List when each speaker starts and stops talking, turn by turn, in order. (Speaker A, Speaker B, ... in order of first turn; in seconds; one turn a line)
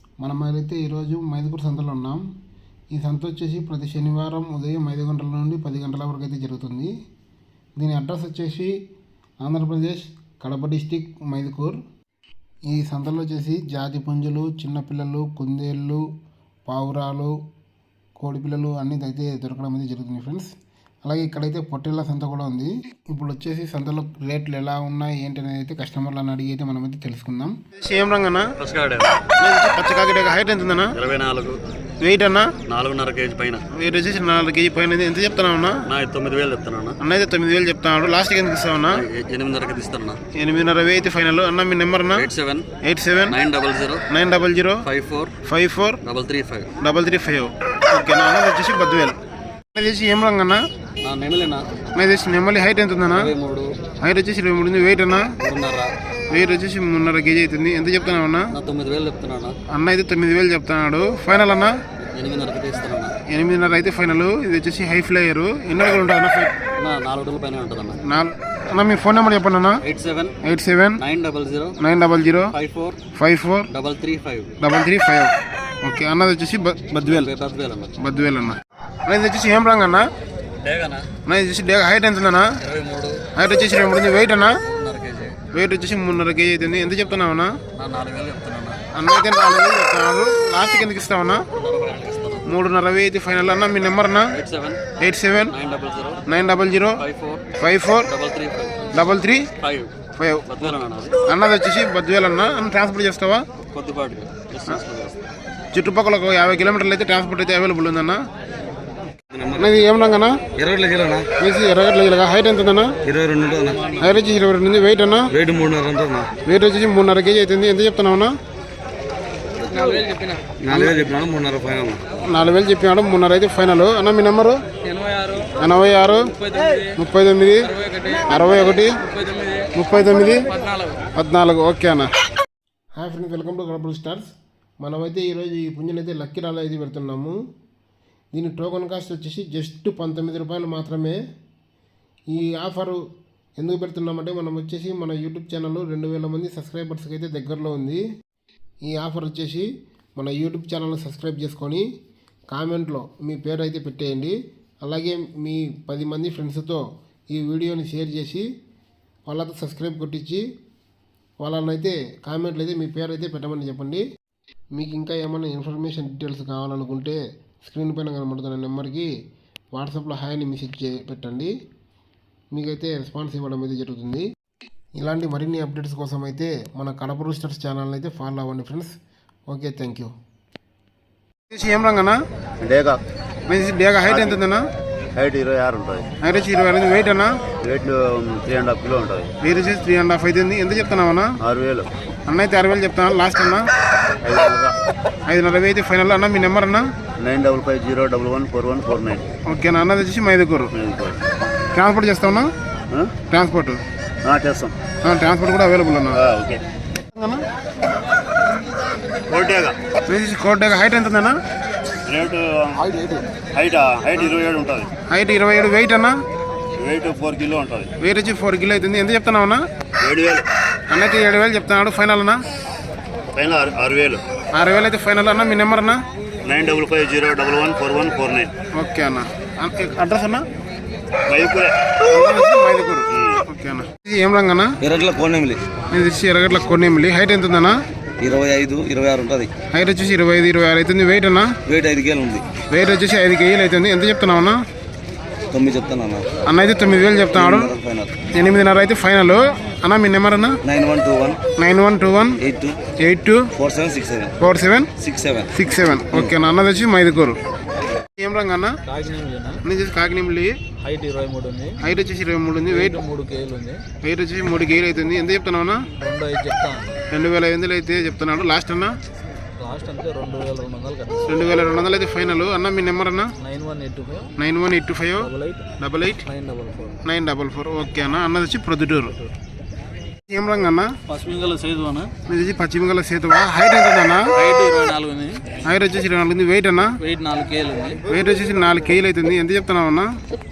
Speaker A: 0.2-2.2
Speaker A: 2.9-6.9
Speaker A: 7.8-8.7
Speaker A: 9.4-11.8
Speaker A: 12.7-16.0
Speaker A: 16.7-17.3
Speaker A: 18.2-20.5
Speaker A: 21.0-28.5
Speaker B: 28.6-29.2
Speaker A: 29.4-30.9
Speaker B: 30.9-31.6
Speaker A: 32.0-32.5
Speaker B: 32.7-33.6
Speaker A: 33.7-35.8
Speaker B: 35.9-37.0
Speaker A: 37.0-39.0
Speaker B: 38.9-40.2
Speaker A: 40.4-42.3
Speaker B: 42.1-42.6
Speaker A: 42.8-43.4
Speaker B: 43.3-44.0
Speaker A: 44.1-44.8
Speaker B: 44.8-45.3
Speaker A: 45.4-46.0
Speaker B: 46.0-46.7
Speaker A: 46.8-49.1
Speaker A: 49.7-50.6
Speaker B: 51.0-51.6
Speaker A: 52.0-53.3
Speaker B: 53.1-53.7
Speaker A: 54.0-55.3
Speaker B: 55.4-55.9
Speaker A: 56.3-58.5
Speaker B: 58.5-59.5
Speaker A: 59.7-61.7
Speaker B: 62.1-63.1
Speaker A: 63.3-66.5
Speaker B: 66.8-68.0
Speaker A: 68.0-69.8
Speaker B: 69.8-70.3
Speaker A: 70.4-71.0
Speaker B: 71.0-71.8
Speaker A: 71.8-72.5
Speaker B: 72.5-73.0
Speaker A: 73.2-73.7
Speaker B: 73.7-74.5
Speaker A: 74.6-77.3
Speaker B: 77.0-77.9
Speaker A: 78.0-80.0
Speaker B: 80.6-81.1
Speaker A: 81.2-82.5
Speaker B: 82.6-83.2
Speaker A: 83.3-84.5
Speaker B: 84.6-85.4
Speaker A: 85.5-87.5
Speaker B: 87.7-88.8
Speaker A: 88.9-91.4
Speaker B: 91.5-92.5
Speaker A: 92.5-94.3
Speaker B: 94.3-94.8
Speaker A: 95.0-95.5
Speaker B: 95.5-96.2
Speaker A: 96.3-97.0
Speaker B: 97.0-97.4
Speaker A: 97.6-98.1
Speaker B: 98.1-98.9
Speaker A: 98.9-99.5
Speaker B: 99.6-99.9
Speaker A: 100.1-103.4
Speaker B: 100.5-101.2
Speaker B: 103.7-105.2
Speaker A: 105.7-108.2
Speaker C: 109.3-109.8
Speaker A: 109.5-110.4
Speaker C: 110.5-111.3
Speaker A: 111.4-112.9
Speaker C: 113.0-113.9
Speaker A: 114.0-115.3
Speaker C: 115.3-116.3
Speaker A: 116.4-118.3
Speaker C: 119.7-120.0
Speaker D: 119.8-120.5
Speaker C: 120.6-122.0
Speaker A: 120.7-121.0
Speaker A: 122.3-124.6
Speaker D: 124.8-125.5
Speaker A: 125.6-127.7
Speaker D: 126.4-126.9
Speaker D: 127.7-128.3
Speaker A: 128.3-129.0
Speaker D: 129.1-129.7
Speaker A: 129.7-130.5
Speaker D: 130.5-131.0
Speaker A: 131.2-132.1
Speaker A: 133.0-134.3
Speaker A: 134.8-137.3
Speaker A: 138.3-141.2
Speaker A: 142.3-143.0
Speaker A: 143.6-148.0
Speaker A: 148.8-151.8
Speaker A: 152.5-158.4
Speaker A: 159.3-160.4
Speaker A: 161.4-164.0
Speaker A: 164.7-169.1
Speaker A: 169.7-171.5
Speaker A: 172.5-174.2
Speaker A: 175.0-178.9
Speaker A: 179.5-180.1
Speaker A: 181.5-182.2
Speaker E: 182.6-183.0
Speaker A: 183.5-184.6
Speaker E: 184.1-184.4
Speaker E: 185.2-186.1
Speaker A: 186.2-187.4
Speaker E: 187.6-189.3
Speaker A: 189.4-191.3
Speaker E: 191.4-191.9
Speaker A: 192.3-193.7
Speaker E: 194.2-194.7
Speaker A: 195.3-196.9
Speaker E: 197.2-199.2
Speaker A: 199.5-200.7
Speaker E: 200.7-201.2
Speaker A: 201.7-202.5
Speaker A: 203.3-203.8
Speaker E: 204.2-204.7
Speaker A: 205.0-206.2
Speaker E: 206.1-206.6
Speaker A: 207.1-207.4
Speaker E: 209.3-209.7
Speaker A: 210.1-211.3
Speaker E: 212.1-212.9
Speaker C: 212.9-213.2
Speaker E: 213.6-214.9
Speaker A: 215.1-216.1
Speaker E: 216.8-217.9
Speaker A: 218.0-219.6
Speaker E: 220.0-220.4
Speaker A: 220.9-222.4
Speaker E: 223.3-224.2
Speaker A: 224.5-226.0
Speaker E: 226.4-228.5
Speaker A: 228.7-230.4
Speaker E: 231.3-231.7
Speaker A: 232.0-234.7
Speaker E: 233.1-233.4
Speaker C: 234.8-235.6
Speaker A: 235.9-237.7
Speaker C: 238.2-239.5
Speaker A: 239.7-241.5
Speaker C: 241.7-242.4
Speaker A: 242.7-244.6
Speaker C: 245.5-246.3
Speaker A: 246.4-247.8
Speaker C: 247.3-248.1
Speaker A: 248.3-250.6
Speaker C: 250.6-251.4
Speaker A: 251.6-252.4
Speaker C: 252.4-252.8
Speaker A: 253.0-253.5
Speaker C: 253.5-254.3
Speaker A: 254.4-254.9
Speaker C: 255.0-255.5
Speaker A: 255.5-257.4
Speaker A: 258.2-258.8
Speaker D: 258.9-259.6
Speaker A: 259.6-260.5
Speaker D: 260.8-261.8
Speaker A: 261.8-263.0
Speaker D: 262.7-263.8
Speaker A: 264.0-265.9
Speaker D: 265.9-267.0
Speaker A: 267.1-268.9
Speaker D: 269.6-271.2
Speaker A: 271.2-273.3
Speaker D: 273.4-274.3
Speaker A: 274.4-276.2
Speaker D: 275.2-275.6
Speaker D: 276.2-277.0
Speaker A: 277.0-279.1
Speaker A: 280.3-280.9
Speaker D: 281.1-282.1
Speaker A: 282.3-284.3
Speaker D: 284.4-285.4
Speaker A: 285.6-286.9
Speaker D: 287.0-288.0
Speaker A: 288.1-290.1